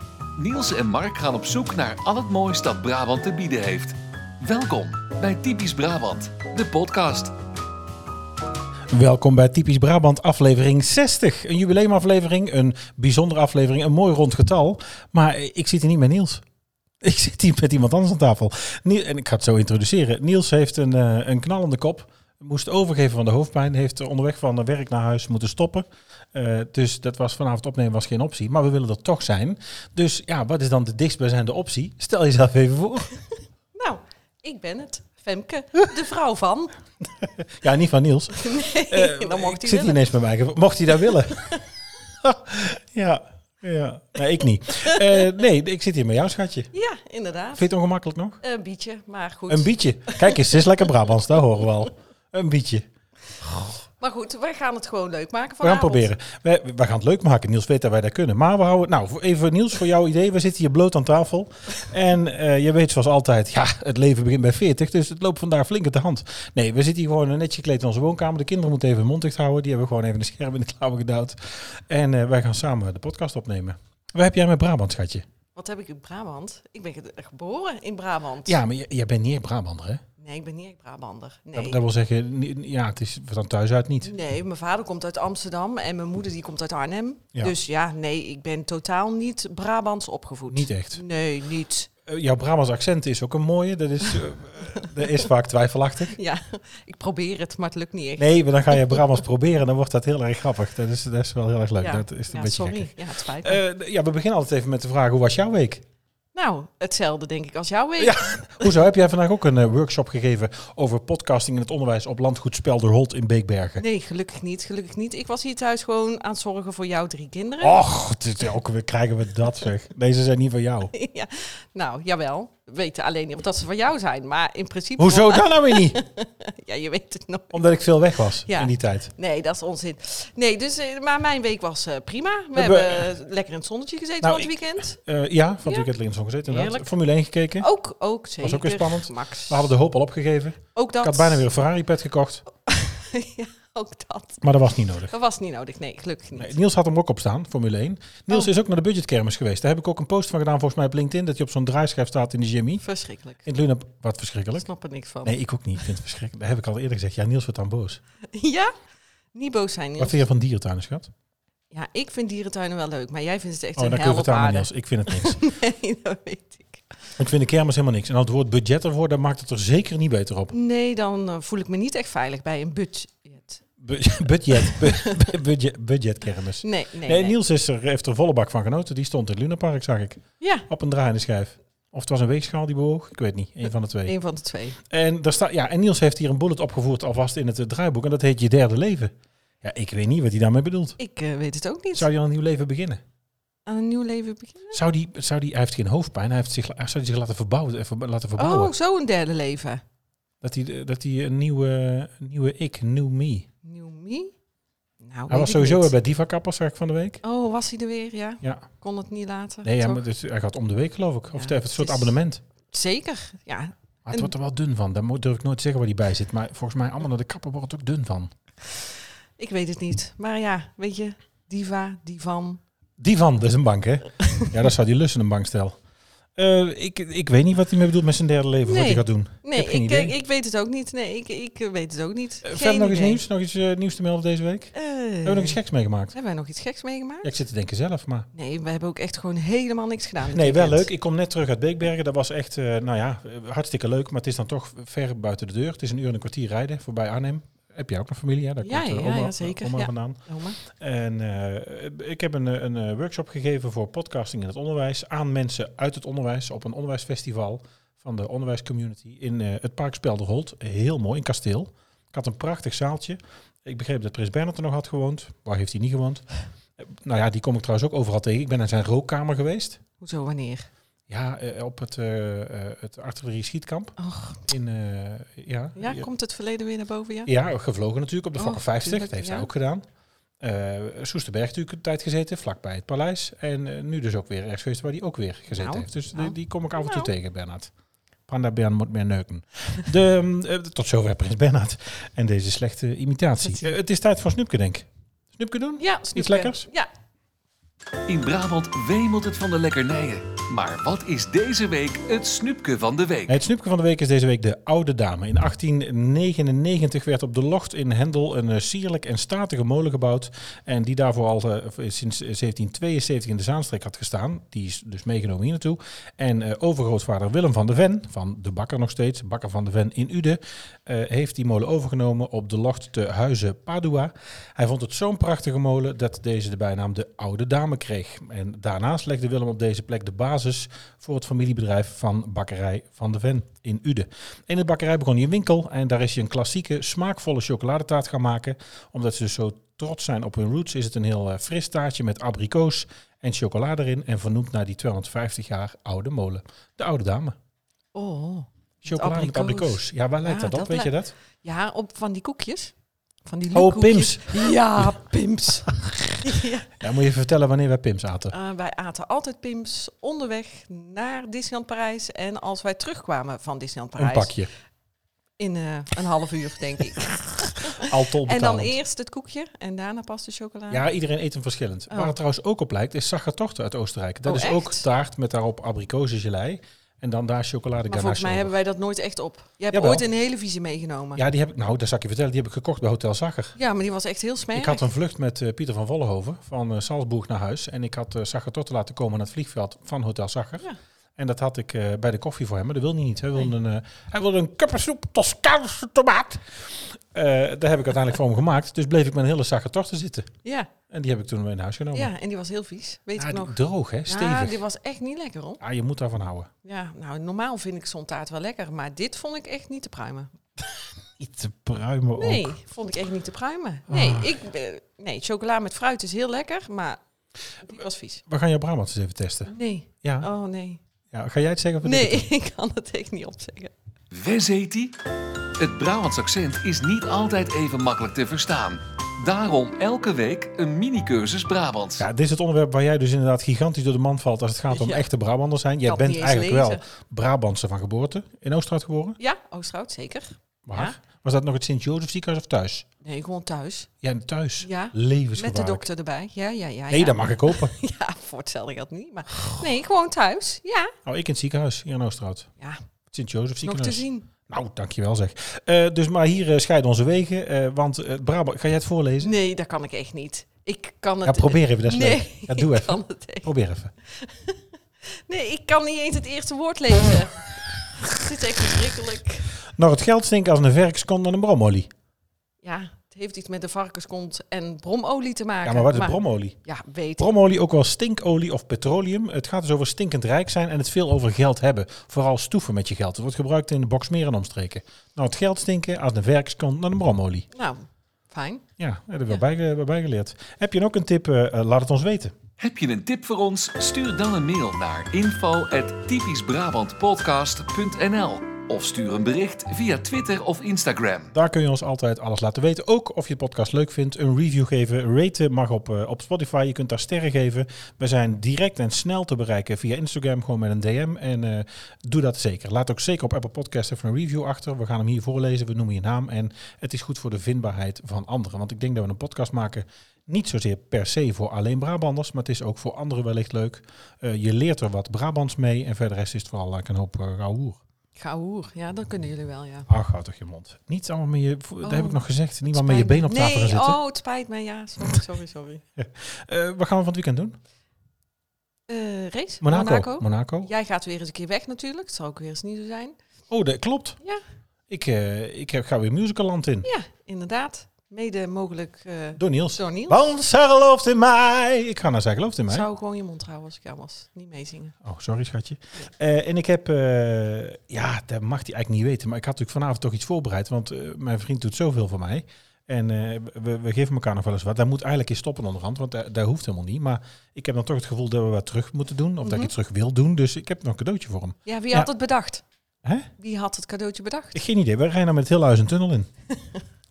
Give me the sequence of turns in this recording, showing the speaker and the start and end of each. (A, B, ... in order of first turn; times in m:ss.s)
0:00.4-0:07.3 A
0:08.9-0:16.4 B
0:17.0-0:33.1 B
0:33.7-0:36.7 C
0:37.2-0:41.4 B
0:38.3-0:40.0 C
0:41.1-0:41.6 C
0:42.2-0:46.7 B
0:44.8-0:45.2 C
0:46.7-0:47.7 C
0:47.5-0:48.4 B
0:48.4-0:50.7 C
0:49.5-0:52.8 B
0:54.0-0:56.1 C
0:55.6-1:15.2 B
1:15.5-1:18.6 C
1:18.4-1:20.0 B
1:20.2-1:21.8 C
1:21.5-1:24.2 B
1:24.0-1:31.9 C
1:30.5-1:31.0 B
1:32.0-1:36.2 B
1:36.1-1:39.0 C
1:38.2-1:45.8 B
1:41.8-1:43.6 C
1:46.3-1:48.4 C
1:48.0-1:53.8 B
1:53.8-1:57.8 C
1:57.6-2:00.9 B
2:00.9-2:07.6 C
2:05.0-2:06.0 B
2:07.5-2:09.1 B
2:08.4-2:15.0 C
2:12.5-2:13.1 B
2:14.2-2:17.7 B
2:16.5-2:16.9 C
2:17.6-2:19.7 C
2:18.4-2:22.4 B
2:20.7-2:21.4 C
2:22.6-2:26.6 C
2:24.4-2:25.1 B
2:26.4-2:32.8 B
2:32.8-2:33.4 C
2:33.4-2:34.7 B
2:34.6-2:35.4 C
2:35.2-2:38.0 B
2:38.3-2:38.7 C
2:39.3-2:40.2 C
2:40.0-2:41.1 B
2:41.7-2:47.0 C
2:43.8-2:45.4 B
2:47.2-2:50.5 B
2:50.5-2:53.6 C
2:53.8-3:04.2 B
2:54.5-2:55.3 C
2:56.6-2:57.4 C
3:00.4-3:00.7 C
3:04.0-3:04.8 C
3:04.9-3:11.0 B
3:11.0-3:12.1 C
3:11.9-3:13.0 B
3:13.6-3:14.8 C
3:14.7-3:18.7 B
3:18.4-3:19.8 C
3:20.4-3:23.5 B
3:23.6-3:24.3 C
3:25.0-3:25.9 C
3:25.3-3:27.2 B
3:27.2-3:30.0 C
3:28.4-3:28.7 B
3:29.6-3:32.4 B
3:31.3-3:32.1 C
3:32.7-3:34.3 C
3:34.0-3:38.3 B
3:39.4-3:42.6 C
3:43.0-3:45.8 B
3:46.4-3:50.2 B
3:48.6-3:53.2 C
3:52.4-3:56.1 B
3:54.7-3:55.6 C
3:56.1-3:57.4 C
3:57.2-3:58.3 B
3:58.3-4:00.9 C
4:00.2-4:26.2 B
4:08.6-4:10.6 C
4:26.8-4:29.8 B
4:30.0-4:30.7 C
4:31.1-4:33.9 B
4:34.0-4:34.5 C
4:34.5-4:36.1 B
4:35.8-4:37.3 C
4:37.3-4:39.8 B
4:38.4-4:39.5 C
4:40.4-4:47.7 B
4:45.5-4:47.1 C
4:48.3-4:56.7 B
4:55.8-4:56.9 C
4:58.0-5:03.4 A
5:03.3-5:47.3 B
5:47.9-5:52.7 C
5:48.8-5:51.1 B
5:53.2-5:55.7 C
5:53.5-5:55.0 B
5:55.7-5:55.9 B
5:56.2-5:56.8 C
5:56.8-5:58.3 B
5:58.3-6:04.3 C
6:04.0-6:04.5 B
6:05.4-6:10.8 C
6:07.8-6:08.8 B
6:10.7-6:18.5 B
6:11.9-6:12.1 C
6:14.2-6:14.8 C
6:17.9-6:21.2 C
6:19.7-6:20.0 B
6:21.2-6:23.6 B
6:23.6-6:24.9 C
6:24.5-6:40.3 B
6:40.4-6:40.7 C
6:40.9-6:42.1 B
6:41.9-6:45.6 C
6:43.2-6:44.6 B
6:45.6-6:46.5 B
6:46.6-6:50.3 C
6:51.2-6:52.6 B
6:52.2-6:57.0 C
6:53.9-6:54.4 B
6:57.6-6:58.2 C
6:58.3-7:00.3 B
6:59.5-7:00.8 C
7:01.1-7:02.3 B
7:01.8-7:03.7 C
7:04.1-7:04.9 A
7:05.6-7:12.0 A
7:12.0-7:19.2 B
7:14.7-7:15.0 C
7:15.8-7:16.8 C
7:19.2-7:21.0 C
7:20.6-7:22.8 B
7:23.0-7:23.9 C
7:24.0-7:25.9 B
7:24.6-7:30.9 C
7:26.9-7:27.7 B
7:31.0-7:32.5 B
7:33.1-7:39.3 B
7:33.6-7:34.3 C
7:39.2-7:43.5 C
7:41.2-7:43.9 B
7:44.1-7:44.6 C
7:45.1-7:49.5 C
7:49.7-7:51.9 B
7:52.6-7:57.3 C
7:55.6-7:56.6 B
7:57.2-8:07.5 B
8:07.5-8:08.6 C
8:08.8-8:12.3 B
8:12.6-8:21.3 A
8:21.3-8:47.8 B
8:48.2-8:49.9 C
8:49.9-8:54.0 B
8:51.8-8:55.8 C
8:56.0-8:57.6 B
8:58.9-9:03.2 C
8:59.6-9:00.7 B
9:03.5-9:04.2 B
9:04.9-9:06.9 B
9:06.8-9:10.3 C
9:09.4-9:12.9 B
9:12.7-9:15.0 C
9:15.0-9:32.1 B
9:29.4-9:29.7 C
9:31.6-9:32.6 C
9:33.0-9:33.3 B
9:33.4-9:34.6 C
9:34.5-9:36.3 B